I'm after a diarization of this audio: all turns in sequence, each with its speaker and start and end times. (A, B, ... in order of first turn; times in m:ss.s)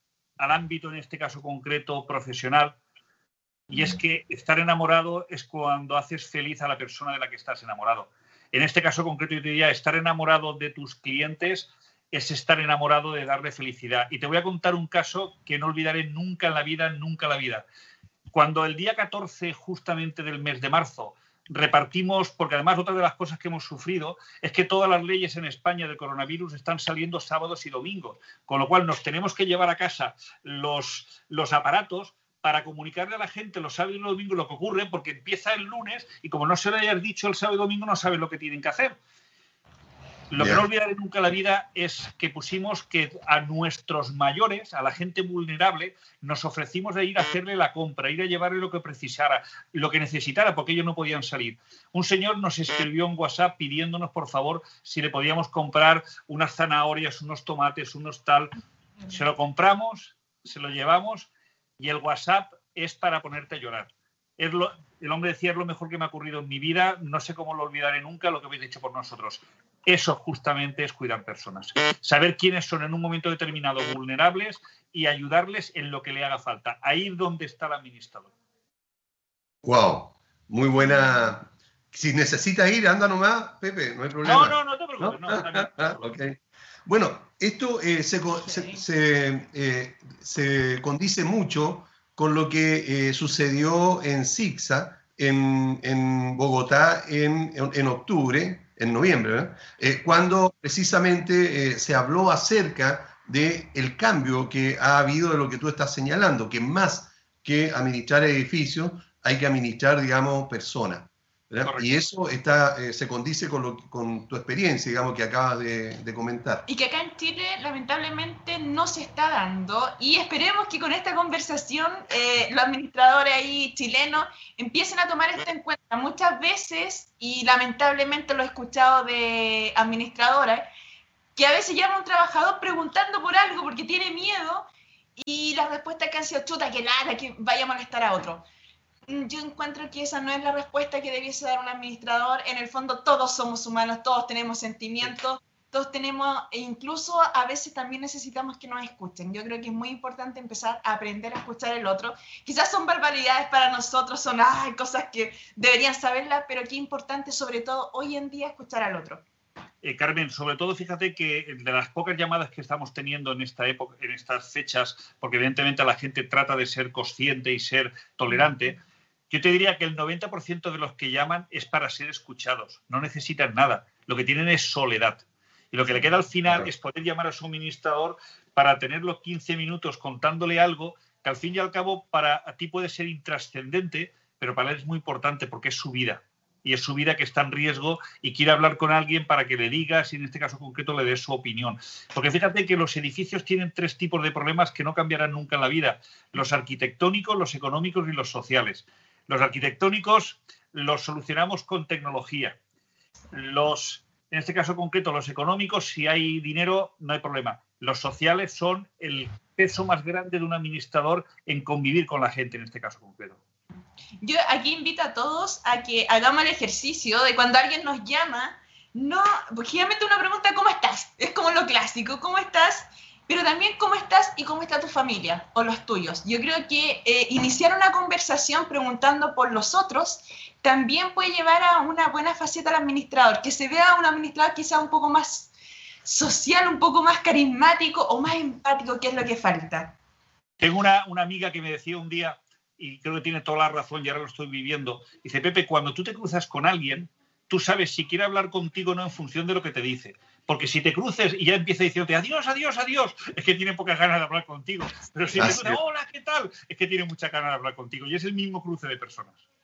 0:00.4-0:02.8 A
0:03.7-0:17.6 A
0:18.3-0:39.0 A
0:40.3-0:58.5 A
0:40.4-0:40.6 B
0:59.0-1:18.3 A
1:19.6-1:56.6 B
1:24.2-1:25.9 A
1:28.4-1:28.8 C
1:51.6-1:51.9 A
1:56.7-2:10.7 C
2:11.4-2:18.4 C
2:19.1-2:39.2 C
2:39.8-2:48.8 A
2:49.3-3:22.6 A
3:23.3-3:33.4 A
3:34.2-3:55.5 C
3:56.0-3:59.9 C
4:00.6-4:19.4 A
4:15.4-4:15.8 B